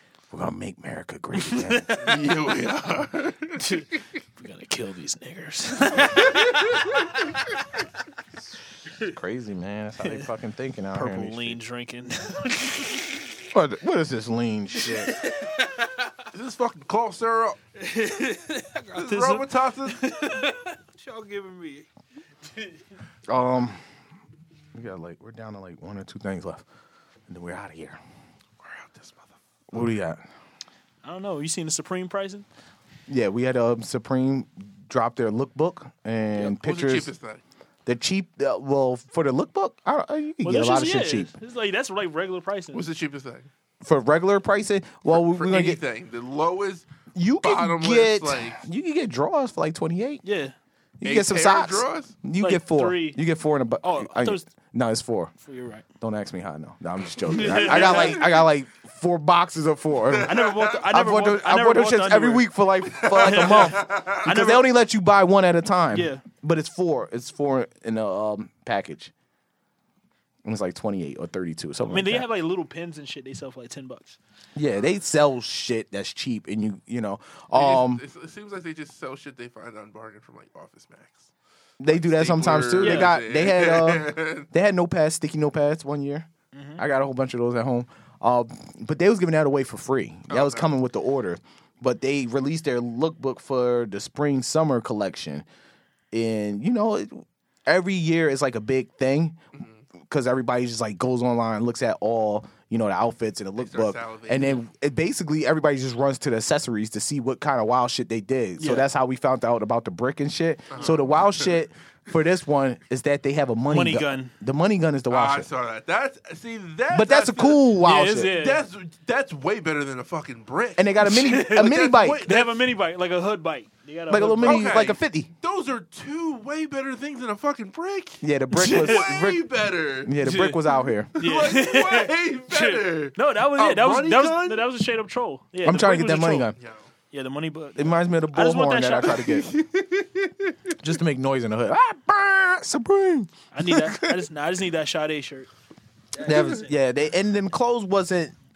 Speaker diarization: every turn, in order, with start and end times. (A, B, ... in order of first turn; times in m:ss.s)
0:00.3-0:02.1 A
0:01.4-0:02.2 B
0:02.0-0:04.0 C
0:03.6-0:07.4 B
0:06.0-0:06.7 C
0:09.0-0:11.6 A
0:10.0-0:10.3 B
0:10.9-0:13.2 B
0:13.5-0:15.2 A
0:14.8-0:16.1 B
0:16.3-0:17.6 C
0:17.8-0:21.9 B
0:18.9-0:20.3 C
0:22.5-0:22.8 B
0:23.3-0:23.8 A
0:24.7-0:26.6 A
0:27.3-0:28.0 A
0:28.6-0:29.8 C
0:29.7-0:30.2 A
0:31.0-0:32.4 B
0:33.1-0:37.1 A
0:36.4-0:37.4 C
0:37.9-0:41.3 A
0:40.4-0:42.8 B
0:42.7-0:43.5 C
0:43.8-0:45.8 A
0:45.1-0:46.9 C
0:47.2-0:50.2 A
0:47.4-0:48.6 C
0:50.2-0:50.6 B
0:51.0-0:55.3 A
0:51.0-0:52.2 C
0:52.4-0:53.2 B
0:53.8-0:54.5 B
0:55.4-0:55.8 B
0:56.0-1:00.3 A
0:57.3-0:58.3 B
0:57.6-0:58.3 C
1:00.1-1:00.8 C
1:00.2-1:02.5 B
1:00.9-1:09.1 A
1:02.9-1:04.2 C
1:03.1-1:04.6 B
1:05.9-1:06.2 B
1:10.4-1:12.3 A
1:11.9-1:14.2 B
1:14.6-1:18.0 A
1:17.5-1:21.3 C
1:21.8-1:35.4 A
1:21.9-1:24.5 C
1:22.8-1:23.1 B
1:26.5-1:26.8 B
1:30.3-1:30.7 C
1:36.1-1:39.4 A
1:39.5-1:39.8 C
1:40.0-1:55.5 A
1:43.6-1:44.6 C
1:48.6-1:48.9 B
1:50.7-1:51.6 C
1:53.7-1:54.3 B
1:55.1-1:57.7 C
1:56.9-1:58.3 A
1:57.8-1:58.6 B
1:58.3-2:02.6 C
2:00.8-2:02.3 A
2:01.0-2:04.7 B
2:04.1-2:05.3 A
2:04.4-2:10.2 C
2:08.2-2:09.4 A
2:08.5-2:09.0 B
2:10.0-2:11.1 A
2:10.2-2:10.6 B
2:11.1-2:14.7 C
2:11.2-2:16.5 B
2:15.6-2:16.6 A
2:16.6-2:16.9 C
2:17.1-2:19.3 B
2:17.8-2:19.5 A
2:19.2-2:20.7 C
2:20.8-2:24.2 A
2:23.5-2:25.5 B
2:26.1-2:26.7 B
2:26.2-2:28.3 A